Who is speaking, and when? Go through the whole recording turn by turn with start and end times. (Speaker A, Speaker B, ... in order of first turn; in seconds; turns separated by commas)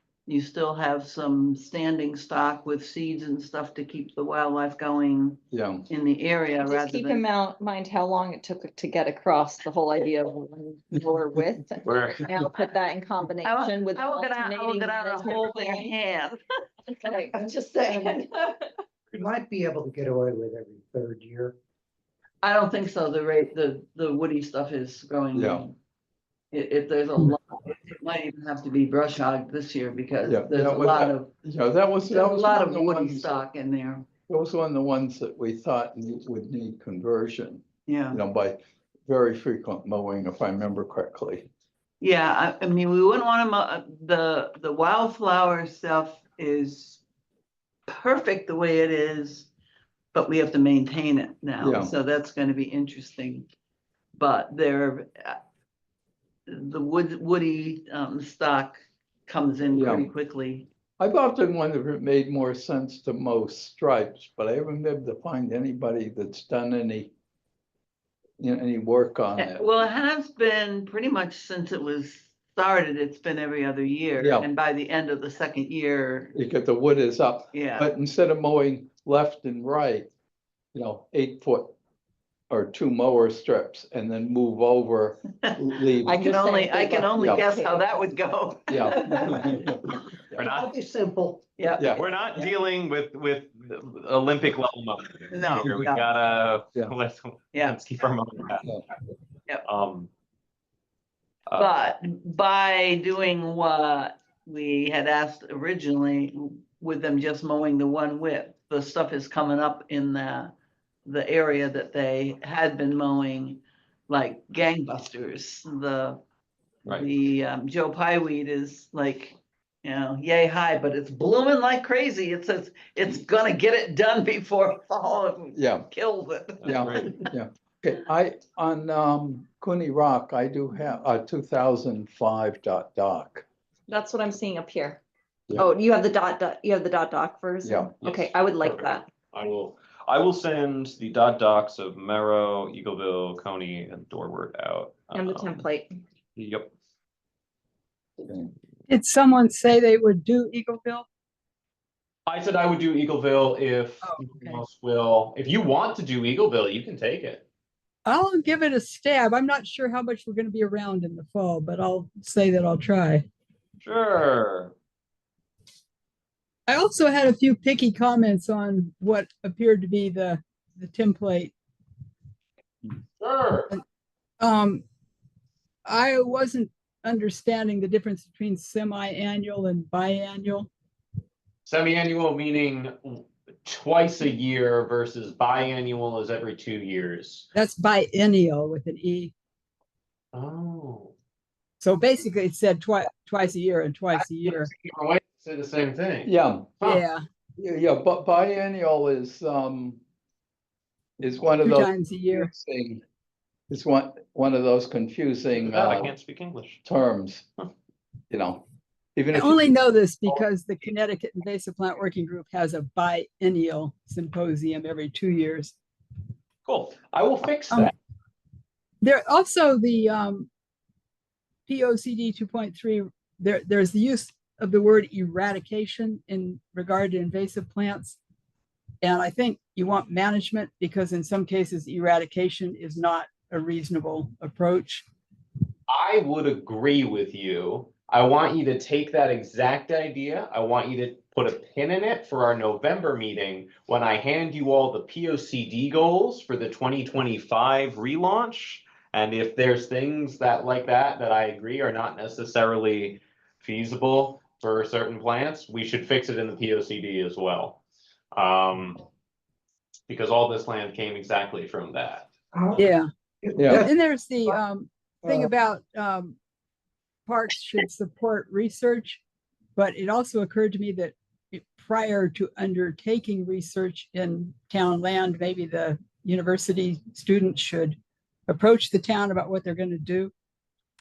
Speaker A: 0.3-7.2, Speaker B: 5.5-5.8, Speaker C: 6.6-15.9, Speaker D: 11.8-12.3, Speaker A: 13.4-16.4, Speaker C: 16.9-18.7, Speaker A: 17.3-18.2, Speaker E: 19.1-21.6, Speaker A: 22.4-25.8, Speaker B: 25.3-25.6, Speaker A: 26.5-31.3, Speaker B: 30.2-33.3, Speaker A: 32.1-34.1, Speaker B: 34.3-41.5, Speaker A: 37.9-38.2, Speaker A: 42.0-47.0, Speaker A: 47.9-49.5, Speaker A: 50.1-53.5, Speaker B: 51.6-51.9, Speaker A: 54.1-55.4, Speaker A: 56.5-60.7, Speaker B: 59.7-60.1, Speaker B: 61.0-67.1, Speaker B: 68.4-69.7, Speaker A: 69.4-76.3, Speaker B: 74.2-74.5, Speaker B: 76.3-80.1, Speaker A: 77.5-77.9, Speaker B: 80.7-81.8, Speaker B: 82.5-86.3, Speaker A: 86.0-89.8, Speaker C: 86.1-87.9, Speaker B: 88.7-89.8, Speaker D: 90.4-90.8, Speaker E: 90.4-91.5, Speaker A: 91.6-92.5, Speaker B: 91.8-92.1, Speaker D: 91.9-98.8, Speaker A: 95.3-96.0, Speaker D: 99.7-100.1, Speaker A: 101.5-110.5, Speaker A: 111.0-116.2, Speaker A: 116.9-127.3, Speaker B: 125.5-125.8, Speaker D: 126.6-127.2, Speaker B: 126.6-133.5, Speaker C: 133.9-135.0, Speaker C: 135.6-139.1, Speaker B: 137.6-137.9, Speaker D: 138.0-145.7, Speaker C: 145.1-146.0, Speaker D: 146.4-146.7, Speaker F: 148.9-151.1, Speaker D: 152.3-157.4, Speaker F: 154.0-154.6, Speaker F: 158.1-163.2, Speaker D: 163.8-164.7, Speaker F: 166.7-171.5, Speaker D: 173.2-173.8, Speaker F: 174.4-174.8, Speaker F: 175.9-180.7, Speaker D: 181.7-187.5, Speaker F: 187.6-189.3, Speaker D: 190.3-191.1, Speaker F: 191.8-194.7, Speaker D: 194.2-197.0, Speaker B: 196.2-196.8, Speaker F: 196.8-197.2, Speaker B: 197.6-200.0, Speaker B: 201.2-203.0, Speaker F: 201.6-202.5, Speaker B: 203.7-206.1, Speaker D: 205.6-206.8, Speaker B: 206.8-207.5, Speaker B: 208.3-208.6, Speaker B: 209.2-209.7, Speaker F: 209.3-215.7, Speaker D: 216.7-217.9, Speaker F: 219.0-220.5, Speaker F: 221.7-228.2, Speaker F: 229.0-235.1, Speaker D: 235.9-257.8, Speaker D: 258.3-259.0, Speaker D: 260.1-262.3, Speaker E: 262.6-262.8, Speaker F: 262.8-263.1, Speaker E: 263.4-263.9, Speaker B: 263.6-263.9, Speaker F: 263.7-266.4, Speaker E: 265.2-265.5, Speaker F: 267.3-269.2, Speaker F: 269.8-278.0, Speaker F: 278.5-280.3